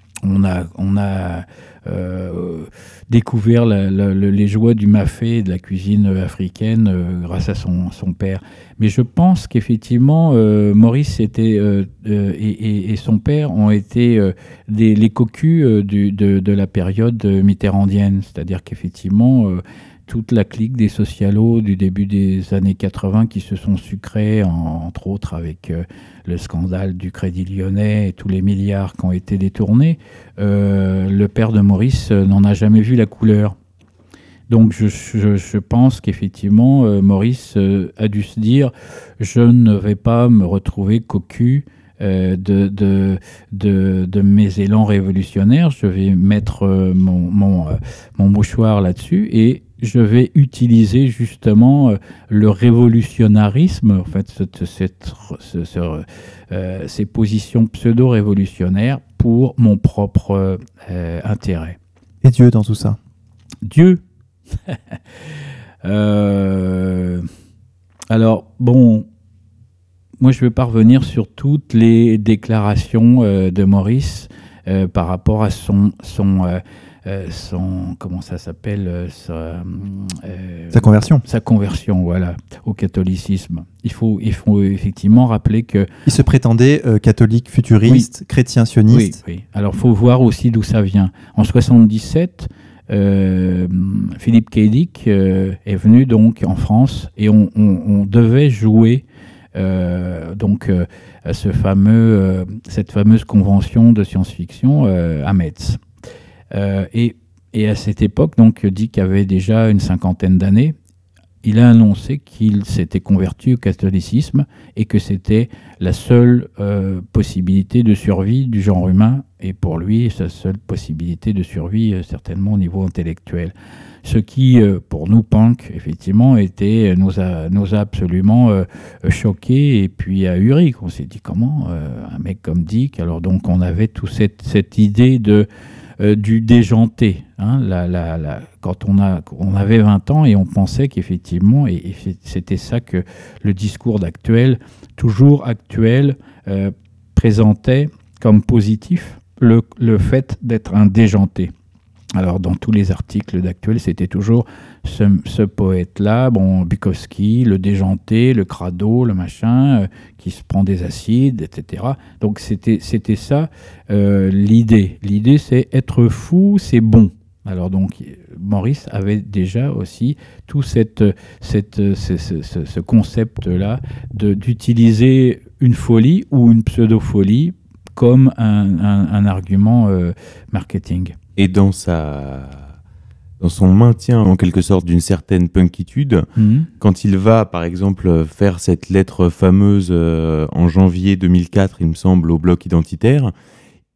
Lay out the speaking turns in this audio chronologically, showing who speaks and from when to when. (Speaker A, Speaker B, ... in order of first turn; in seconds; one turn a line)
Speaker A: 0.2-33.5
Speaker A: 34.5-61.8
Speaker B: 62.2-63.0
Speaker A: 63.6-64.0
Speaker A: 64.7-65.0
Speaker A: 65.8-67.3
Speaker A: 68.1-69.1
Speaker A: 70.2-85.9
Speaker B: 80.7-81.2
Speaker B: 86.0-89.2
Speaker A: 88.9-99.0
Speaker A: 99.5-105.8
Speaker A: 106.5-110.7
Speaker A: 111.4-135.5
Speaker A: 136.0-151.5
Speaker A: 152.2-181.2
Speaker C: 181.4-182.7
Speaker C: 183.4-186.3
Speaker A: 186.4-186.7
Speaker C: 186.8-193.3